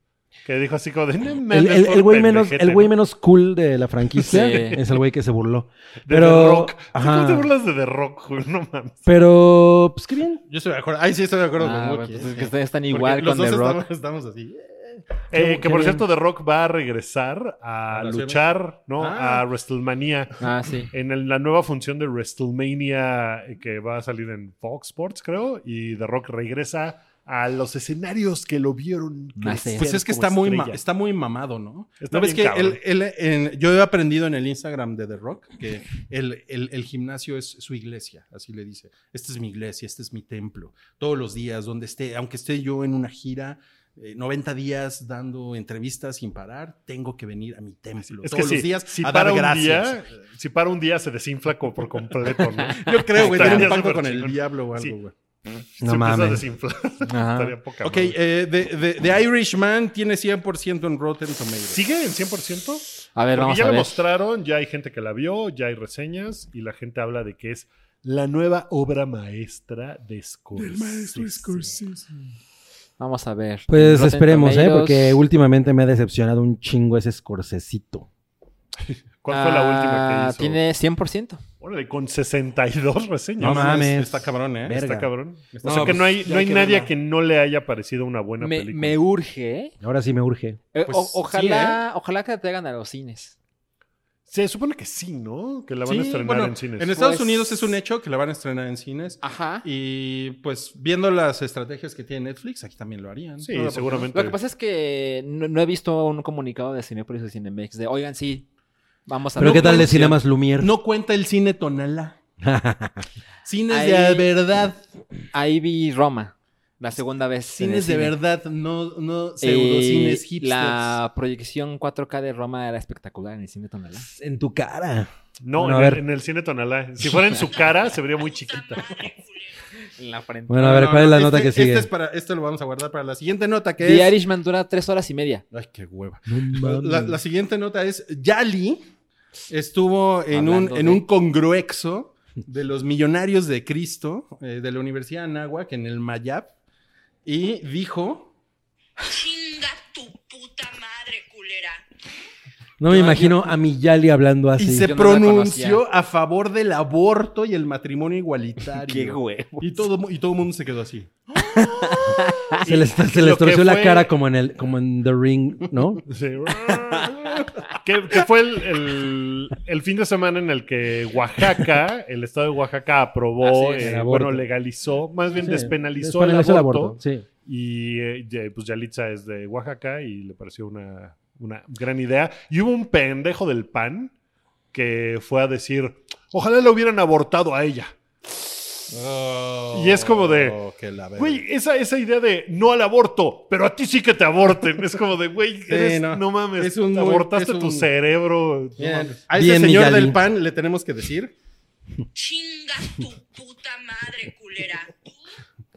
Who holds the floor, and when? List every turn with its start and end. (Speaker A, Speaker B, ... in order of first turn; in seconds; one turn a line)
Speaker A: 0.5-2.9
Speaker B: 1.5-7.5
Speaker C: 4.2-4.8
Speaker A: 6.1-9.0
Speaker B: 9.1-10.4
Speaker D: 10.5-15.1
Speaker C: 11.6-13.8
Speaker A: 15.3-30.8
Speaker B: 15.3-16.0
Speaker D: 17.9-18.4
Speaker D: 19.0-19.5
Speaker C: 20.4-20.9
Speaker C: 29.4-29.9
Speaker D: 29.8-50.0
Speaker A: 32.0-32.8
Speaker A: 48.1-55.0
Speaker D: 52.7-55.1
Speaker A: 55.8-58.2
Speaker B: 55.8-56.5
Speaker C: 57.0-57.5
Speaker D: 57.8-61.8
Speaker A: 61.7-71.8
Speaker C: 63.1-64.0
Speaker D: 70.6-72.1
Speaker C: 73.0-75.2
Speaker B: 73.7-78.1
Speaker A: 79.2-80.6
Speaker C: 79.3-81.4
Speaker A: 81.6-83.7
Speaker D: 83.4-84.8
Speaker B: 83.4-85.1
Speaker A: 84.7-89.0
Speaker D: 85.5-86.3
Speaker B: 85.6-86.9
Speaker C: 88.4-89.7
Speaker B: 89.8-90.6
Speaker C: 90.7-93.4
Speaker D: 90.9-91.8
Speaker A: 94.3-97.0
Speaker D: 95.9-104.1
Speaker C: 97.0-97.5
Speaker C: 99.2-99.7
Speaker A: 103.4-104.4
Speaker C: 104.1-108.5
Speaker C: 109.1-110.2
Speaker B: 109.4-110.7
Speaker D: 109.4-112.2
Speaker B: 112.4-113.1
Speaker D: 113.5-114.8
Speaker C: 113.7-114.3
Speaker C: 115.3-118.2
Speaker D: 117.5-121.0
Speaker C: 119.4-124.1
Speaker B: 124.0-126.0
Speaker A: 125.4-128.9
Speaker E: 127.4-129.7
Speaker C: 130.0-130.9
Speaker B: 130.5-131.9
Speaker D: 130.6-134.2
Speaker C: 133.8-135.4
Speaker D: 135.5-138.8
Speaker B: 136.3-137.2
Speaker D: 139.5-146.5
Speaker C: 140.3-141.1
Speaker D: 147.2-148.3
Speaker E: 149.0-151.8
Speaker B: 152.8-154.9
Speaker C: 152.9-153.5
Speaker D: 154.6-162.0
Speaker C: 154.7-155.8
Speaker C: 158.8-159.9
Speaker C: 161.5-162.6
Speaker A: 162.6-164.1
Speaker B: 162.7-166.0
Speaker A: 166.1-184.1
Speaker C: 173.4-173.9
Speaker B: 173.8-174.5
Speaker B: 175.3-177.2
Speaker A: 184.7-188.5
Speaker D: 188.9-191.4
Speaker A: 189.7-190.6
Speaker A: 191.2-199.2
Speaker D: 195.7-197.9
Speaker D: 198.8-201.3
Speaker B: 199.3-200.2
Speaker E: 202.2-205.3